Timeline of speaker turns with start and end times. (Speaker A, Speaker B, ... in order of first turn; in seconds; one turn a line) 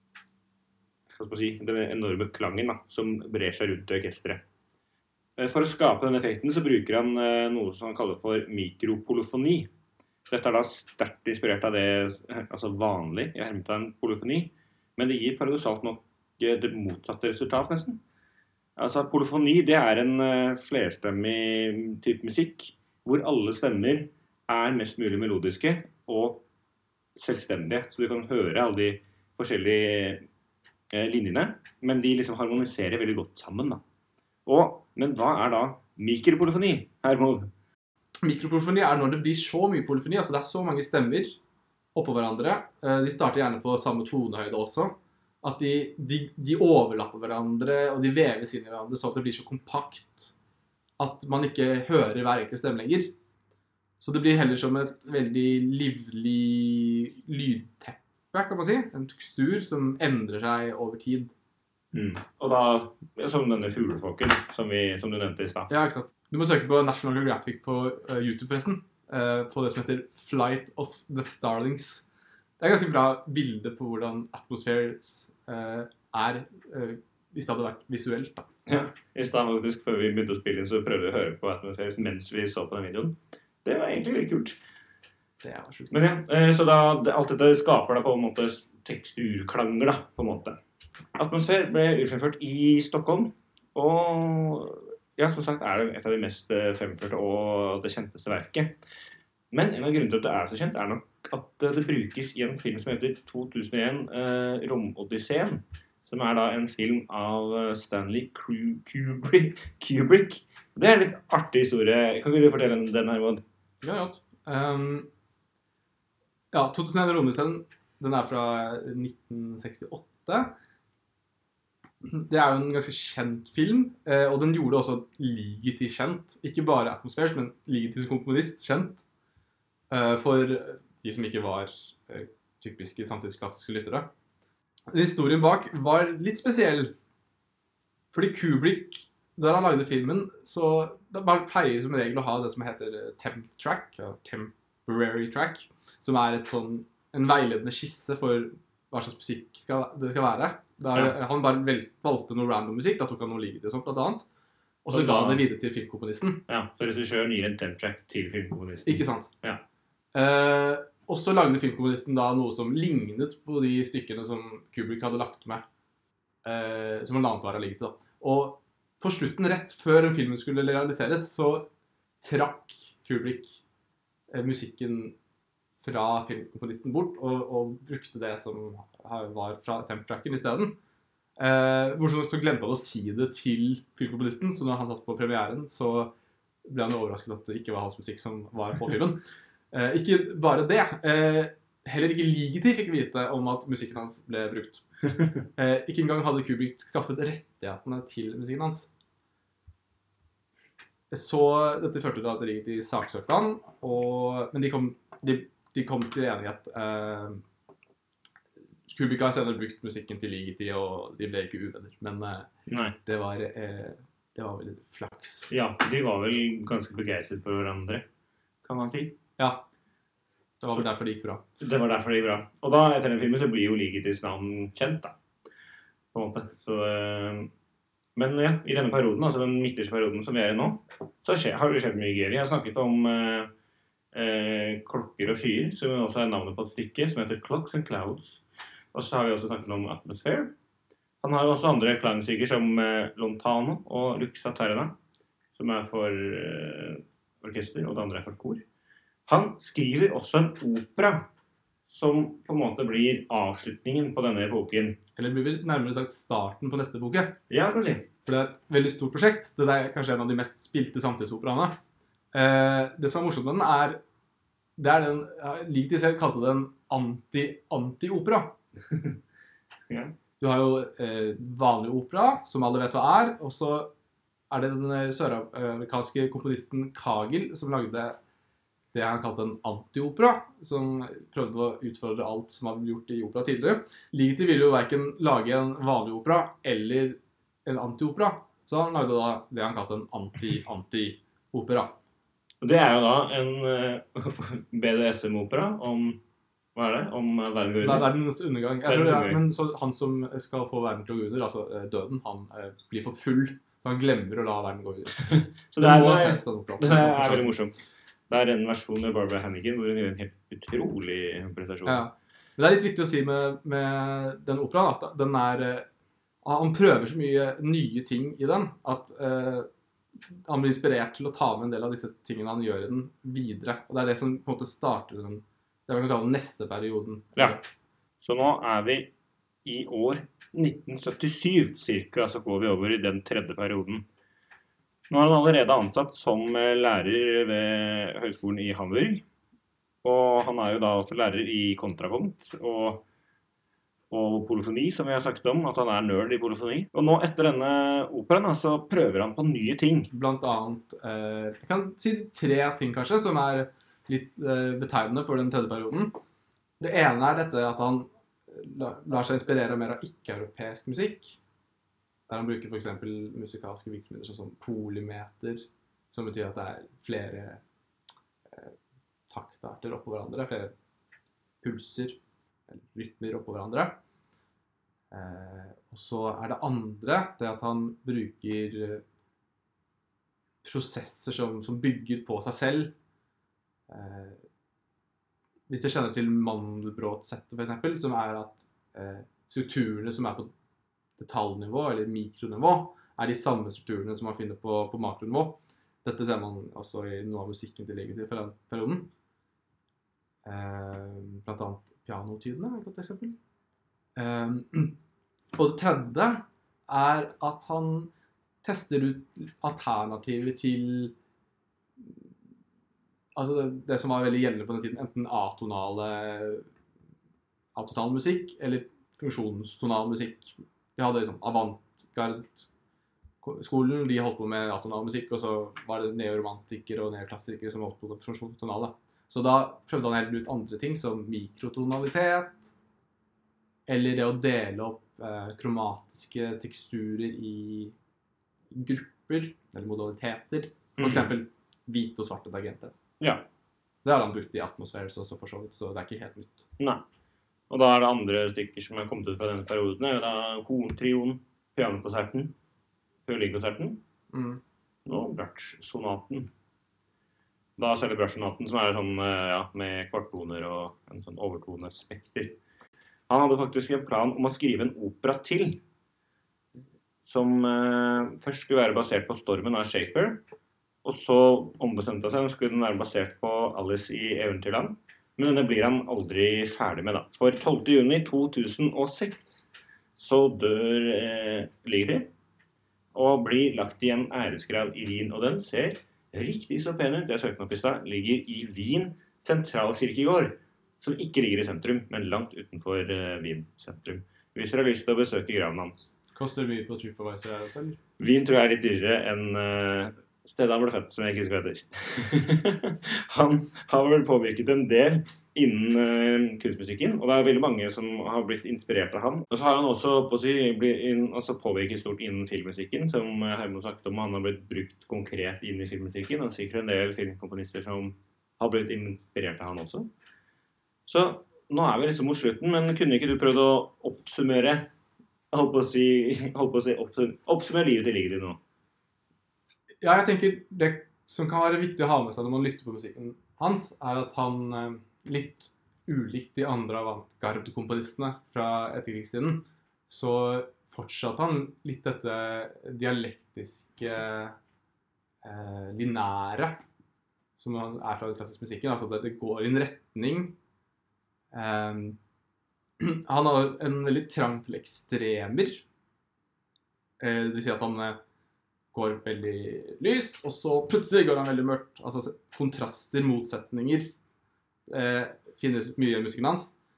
Speaker A: 1.1-4.4
Speaker A: 5.4-9.7
Speaker A: 10.3-18.0
Speaker A: 18.8-26.4
Speaker A: 27.1-30.2
Speaker A: 30.9-33.8
Speaker A: 34.5-37.5
Speaker B: 38.2-41.4
Speaker B: 41.9-50.3
Speaker B: 51.0-53.1
Speaker B: 54.0-61.3
Speaker A: 61.9-65.7
Speaker B: 65.7-72.1
Speaker B: 72.6-78.5
Speaker A: 78.7-84.6
Speaker B: 85.4-86.0
Speaker A: 85.9-90.6
Speaker A: 91.2-98.8
Speaker A: 99.5-113.4
Speaker B: 113.8-115.1
Speaker B: 116.5-120.5
Speaker B: 122.0-129.0
Speaker B: 129.9-134.1
Speaker B: 134.9-136.9
Speaker B: 138.1-154.3
Speaker B: 154.8-156.4
Speaker A: 154.9-155.4
Speaker A: 156.5-159.6
Speaker B: 158.8-159.3
Speaker B: 160.1-165.6
Speaker B: 166.4-171.7
Speaker B: 172.2-173.6
Speaker B: 174.3-175.2
Speaker B: 175.8-180.8
Speaker B: 181.4-186.1
Speaker B: 186.6-194.8
Speaker B: 195.5-198.9
Speaker B: 201.1-207.4
Speaker B: 208.9-212.5
Speaker A: 212.7-212.9
Speaker B: 213.0-215.5
Speaker A: 215.5-218.0
Speaker A: 218.6-219.2
Speaker B: 220.6-221.4
Speaker A: 221.6-225.2
Speaker A: 226.1-227.5
Speaker A: 228.2-233.5
Speaker A: 234.1-238.4
Speaker A: 238.9-240.5
Speaker A: 241.2-244.9
Speaker A: 245.6-248.6
Speaker A: 249.3-251.2
Speaker A: 251.9-255.0
Speaker B: 255.2-257.4
Speaker A: 257.5-258.1
Speaker B: 258.2-261.8
Speaker B: 262.3-264.0
Speaker B: 264.8-268.5
Speaker A: 269.9-270.1
Speaker B: 270.4-273.9
Speaker B: 274.5-278.2
Speaker B: 278.9-292.0
Speaker A: 292.6-296.2
Speaker A: 296.7-298.1
Speaker B: 297.8-307.5
Speaker A: 298.9-299.4
Speaker A: 305.3-307.7
Speaker A: 308.3-312.0
Speaker B: 311.9-315.9
Speaker B: 316.4-319.7
Speaker B: 320.5-327.6
Speaker A: 328.2-329.1
Speaker A: 329.6-334.0
Speaker A: 335.1-339.2
Speaker A: 340.0-343.0
Speaker A: 344.1-350.1
Speaker B: 350.1-356.1
Speaker B: 356.8-361.4
Speaker B: 362.3-367.6
Speaker B: 369.3-370.7
Speaker B: 371.6-374.0
Speaker B: 375.1-379.0
Speaker B: 380.6-382.9
Speaker B: 383.9-384.4
Speaker B: 385.7-390.5
Speaker B: 391.2-399.1
Speaker B: 400.4-403.4
Speaker B: 404.1-405.0
Speaker B: 405.6-408.1
Speaker B: 408.6-411.1
Speaker B: 413.3-416.6
Speaker B: 417.7-422.6
Speaker B: 423.4-432.7
Speaker B: 433.9-437.9
Speaker B: 438.7-442.9
Speaker A: 441.0-441.3
Speaker A: 443.2-443.4
Speaker B: 444.0-446.7
Speaker A: 446.8-447.0
Speaker A: 447.7-452.5
Speaker A: 453.2-454.0
Speaker B: 454.3-454.6
Speaker A: 455.1-456.5
Speaker A: 457.8-462.6
Speaker A: 463.3-465.8
Speaker A: 467.2-470.4
Speaker A: 471.0-482.3
Speaker A: 483.1-496.1
Speaker B: 496.3-498.0
Speaker A: 498.2-520.1
Speaker A: 521.1-524.9
Speaker A: 525.5-528.6
Speaker B: 530.0-544.5
Speaker B: 545.4-546.8
Speaker B: 547.6-550.6
Speaker B: 551.5-552.2
Speaker B: 553.0-555.8
Speaker B: 557.2-558.2
Speaker B: 558.9-564.1
Speaker B: 564.9-566.7